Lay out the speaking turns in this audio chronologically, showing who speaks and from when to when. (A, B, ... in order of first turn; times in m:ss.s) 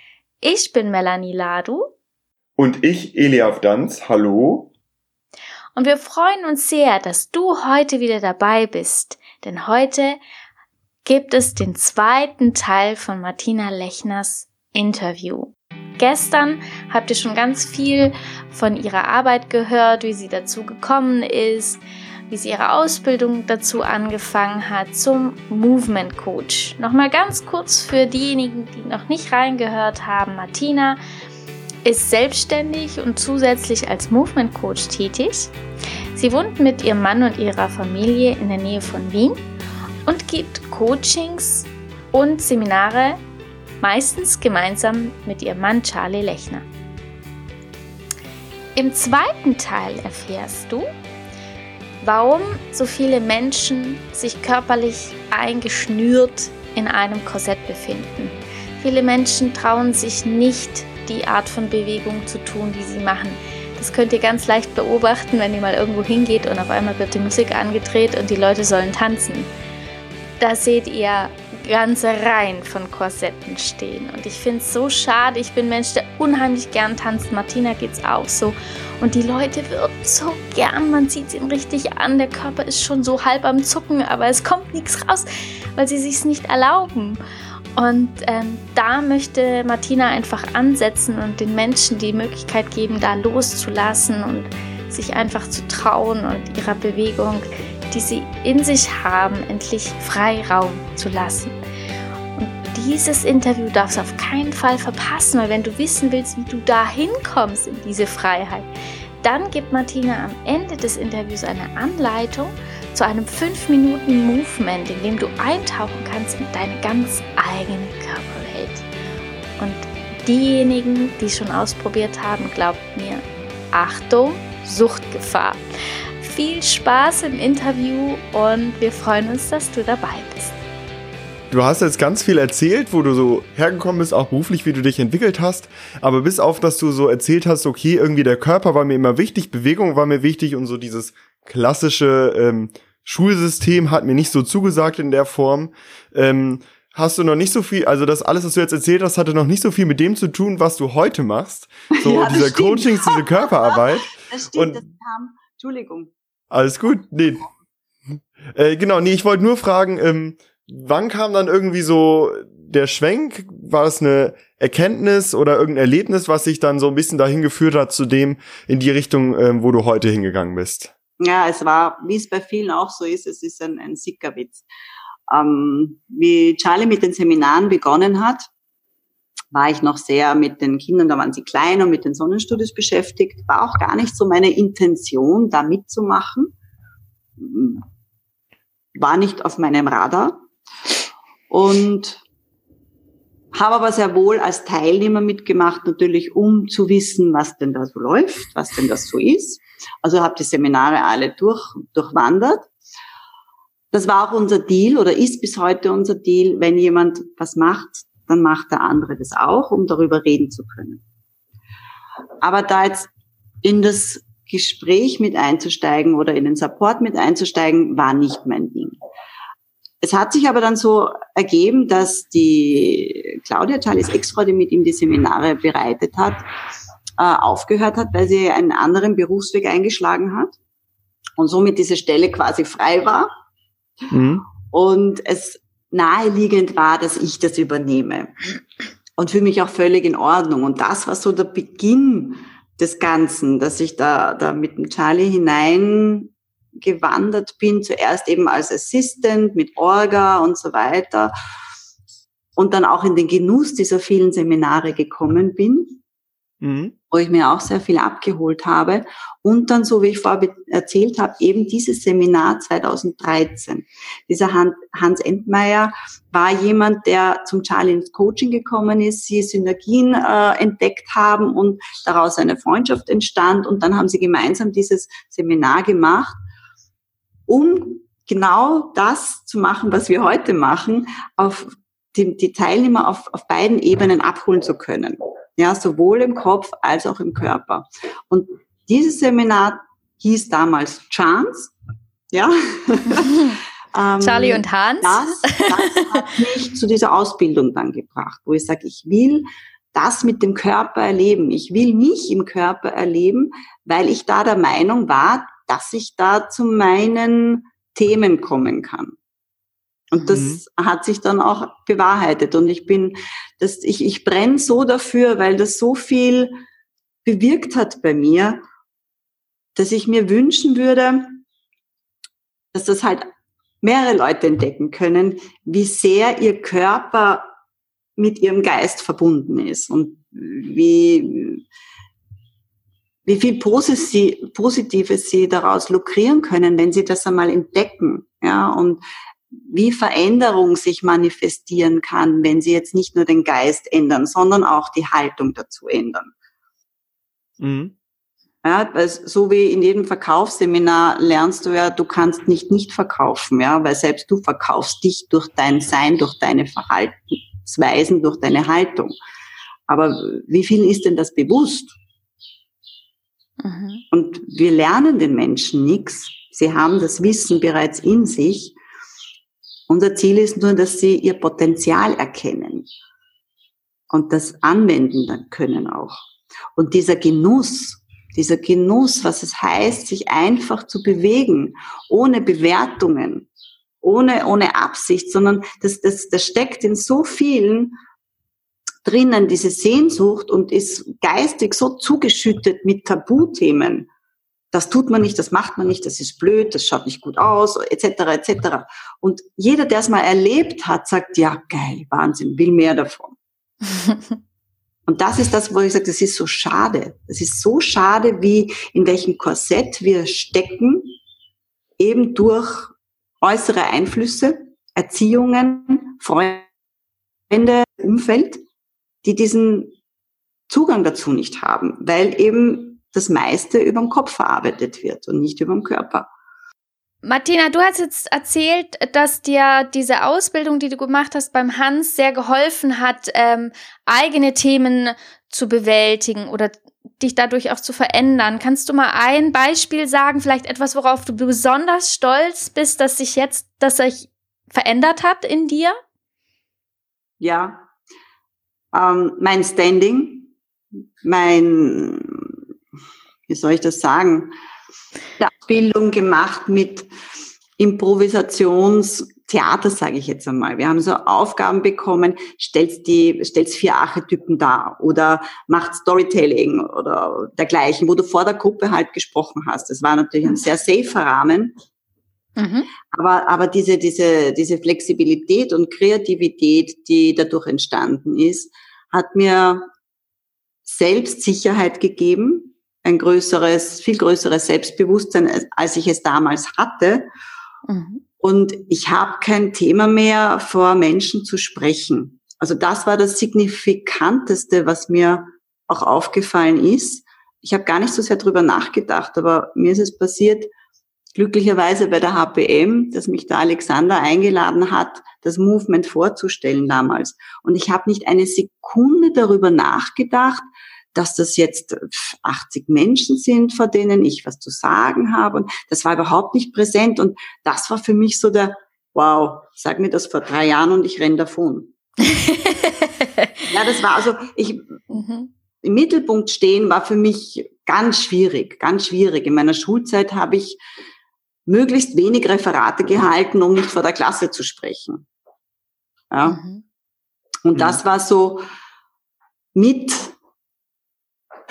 0:00.4-0:01.9 A
0:02.6-0:04.7 B
0:05.8-0:10.2 A
0:11.0-0:31.0 A
0:31.8-0:35.5 A
0:36.2-0:39.4 A
0:40.1-0:43.2 A
0:43.8-0:46.6 A
0:48.8-0:50.8 A
0:52.0-1:09.5 A
1:10.4-1:27.2 A
1:27.8-1:41.6 A
1:42.4-1:48.7 A
1:49.2-1:58.9 A
1:59.6-2:05.6 A
2:06.2-2:10.5 A
2:11.5-2:34.8 B
2:31.9-2:36.1 C
2:36.5-2:37.5 B
2:38.5-2:50.9 B
2:51.2-2:54.6 C
2:55.3-2:58.5 C
2:59.5-3:06.5 C
3:07.4-3:07.8 C
3:09.0-3:10.4 C
3:11.5-3:12.2 C
3:13.5-3:22.7 C
3:23.9-3:31.0 C
3:32.4-3:33.1 C
3:33.6-3:39.0 C
3:40.0-3:46.4 C
3:47.2-3:50.6 C
3:51.4-3:53.3 C
3:54.1-3:54.4 B
3:54.7-3:58.3 C
3:59.2-4:11.3 C
4:12.6-4:16.0 C
4:16.6-4:16.9 B
4:17.1-4:36.4 C
4:37.5-4:51.7 C
4:52.3-5:09.2 C
4:54.2-4:56.2 A
5:10.1-5:16.6 C
5:10.3-5:10.6 B
5:17.2-5:18.6 C
5:19.8-5:21.4 C
5:22.7-5:23.3 C
5:23.8-5:27.5 C
5:28.2-5:31.6 C
5:33.3-5:39.0 C
5:39.5-5:46.3 C
5:47.6-5:47.9 B
5:48.6-5:59.2 C
5:59.9-6:02.0 C
6:03.6-6:04.0 A
6:04.1-6:08.8 C
6:09.9-6:12.9 C
6:14.1-6:16.2 C
6:16.8-6:23.5 C
6:24.0-6:28.0 C
6:29.0-6:34.1 C
6:34.7-6:43.4 C
6:45.1-6:51.2 C
6:52.0-6:56.7 C
6:57.5-6:58.6 C
6:59.2-7:00.0 C
7:00.7-7:06.3 C
7:07.2-7:26.0 A
7:27.4-7:27.9 C
7:28.9-7:30.5 C
7:31.2-7:32.5 C
7:33.5-7:34.5 C
7:35.4-7:37.1 C
7:37.8-7:51.7 C
7:52.6-7:52.9 A
7:53.1-7:59.9 C
8:00.9-8:07.3 C
8:07.9-8:08.2 A
8:08.4-8:20.7 C
8:21.4-8:30.6 C
8:31.1-8:41.9 C
8:42.4-8:43.5 A
8:43.6-8:45.0 C
8:45.1-8:45.5 A
8:45.8-8:50.8 C
8:51.7-8:55.3 C
8:56.3-8:56.6 C
8:56.5-8:56.8 A
8:57.6-8:58.6 C
8:59.8-9:00.4 C